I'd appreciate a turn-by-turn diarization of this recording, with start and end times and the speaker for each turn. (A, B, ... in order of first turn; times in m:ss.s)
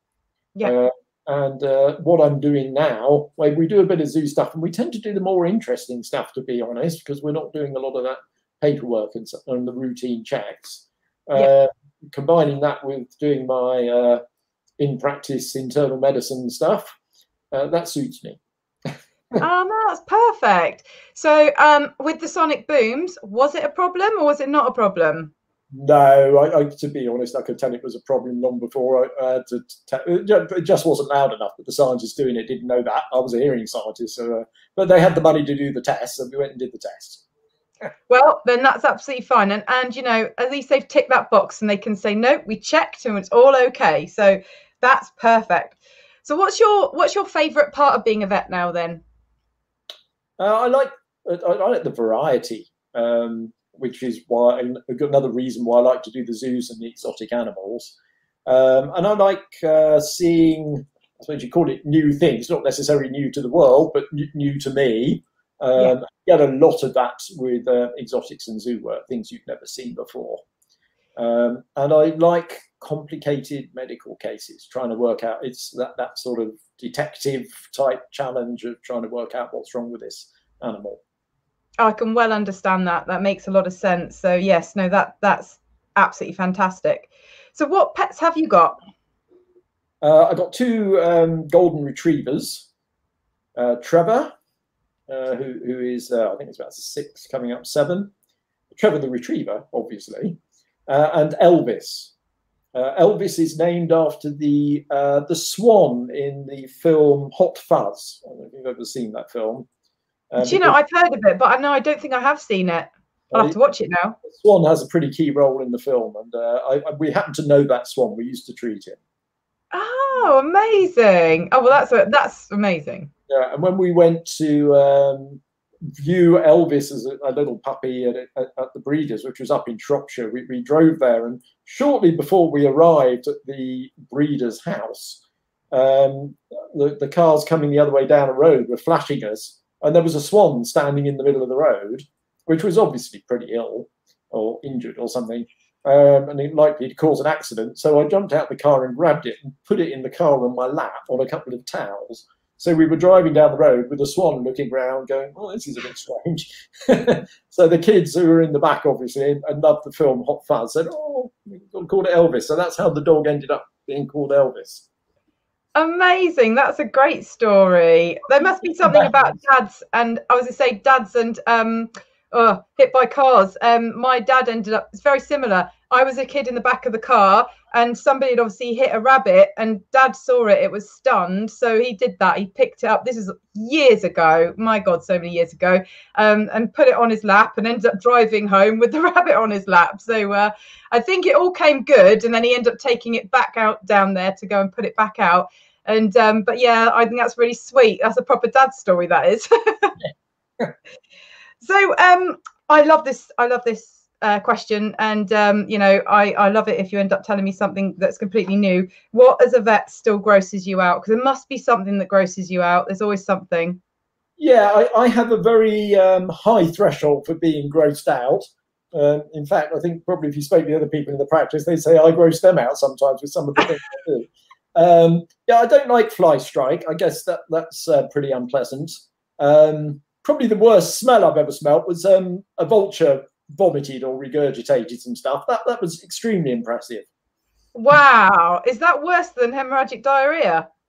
0:00.6-0:14.2 A
0:14.8-0:16.9 A
0:17.5-0:18.4 A
0:19.4-0:25.3 B
0:25.7-0:37.2 A
0:38.1-0:49.0 B
0:50.4-0:57.9 A
0:58.5-1:10.4 A
1:11.2-1:21.0 A
1:21.8-1:28.8 B
1:30.0-1:32.7 A
1:33.6-1:34.3 A
1:35.1-1:38.1 A
1:38.7-1:42.1 A
1:42.7-1:49.7 A
1:50.3-1:50.8 A
1:50.4-1:54.2 B
1:54.2-1:59.0 A
1:59.7-2:03.1 B
2:03.3-2:44.8 A
2:45.7-3:19.9 B
2:48.8-2:49.1 A
3:20.0-3:20.7 A
3:21.6-3:33.8 B
3:34.4-3:57.1 A
3:57.7-4:00.6 B